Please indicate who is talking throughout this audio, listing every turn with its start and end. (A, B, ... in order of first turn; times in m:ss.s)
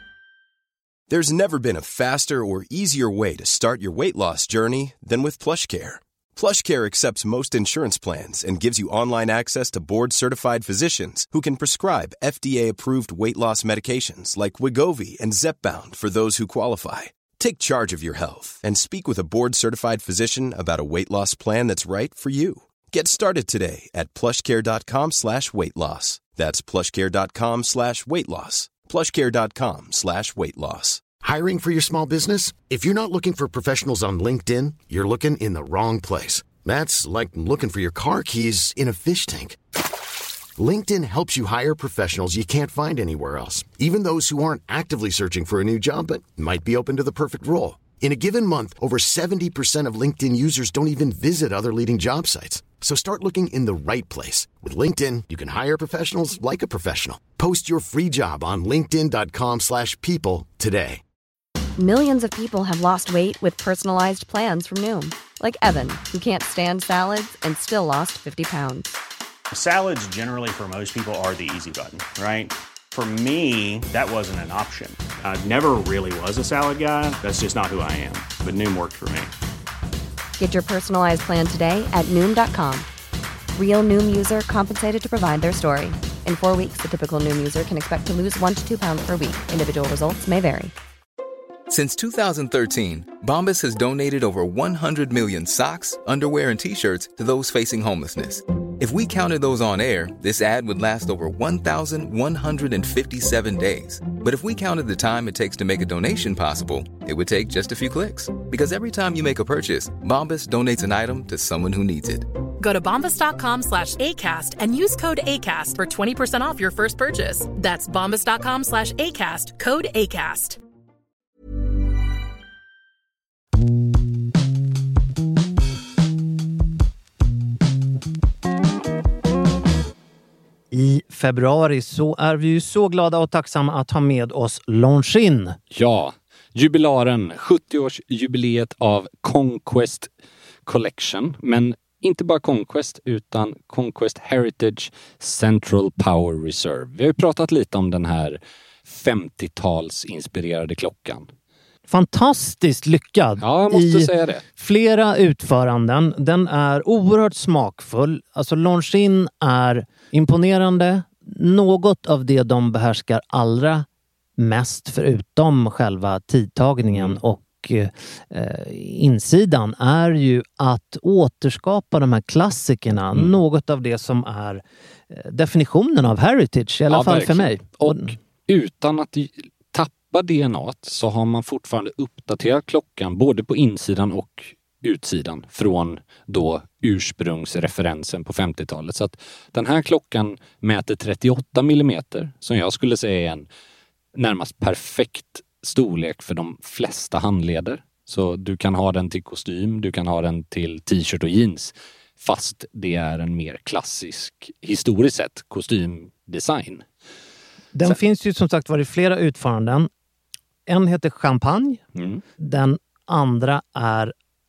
0:01.1-0:31.1 A
0:31.2-0:39.6 B
0:40.6-1:01.0 B
1:01.8-1:08.9 C
1:09.5-1:19.3 D
1:20.4-1:22.8 C
1:23.5-1:30.7 C
1:31.7-1:52.3 E
1:52.6-2:00.6 F
2:10.7-2:15.6 G
2:15.7-2:20.1 H
2:20.6-2:31.3 H
2:31.9-2:43.8 G
2:33.4-2:34.4 H
2:44.4-2:58.1 G
2:46.9-2:47.2 H
2:56.9-3:13.5 H
3:14.1-3:26.8 H
3:27.7-3:29.9 G
3:30.7-3:31.8 G
3:31.9-3:32.2 H
3:32.4-3:34.1 G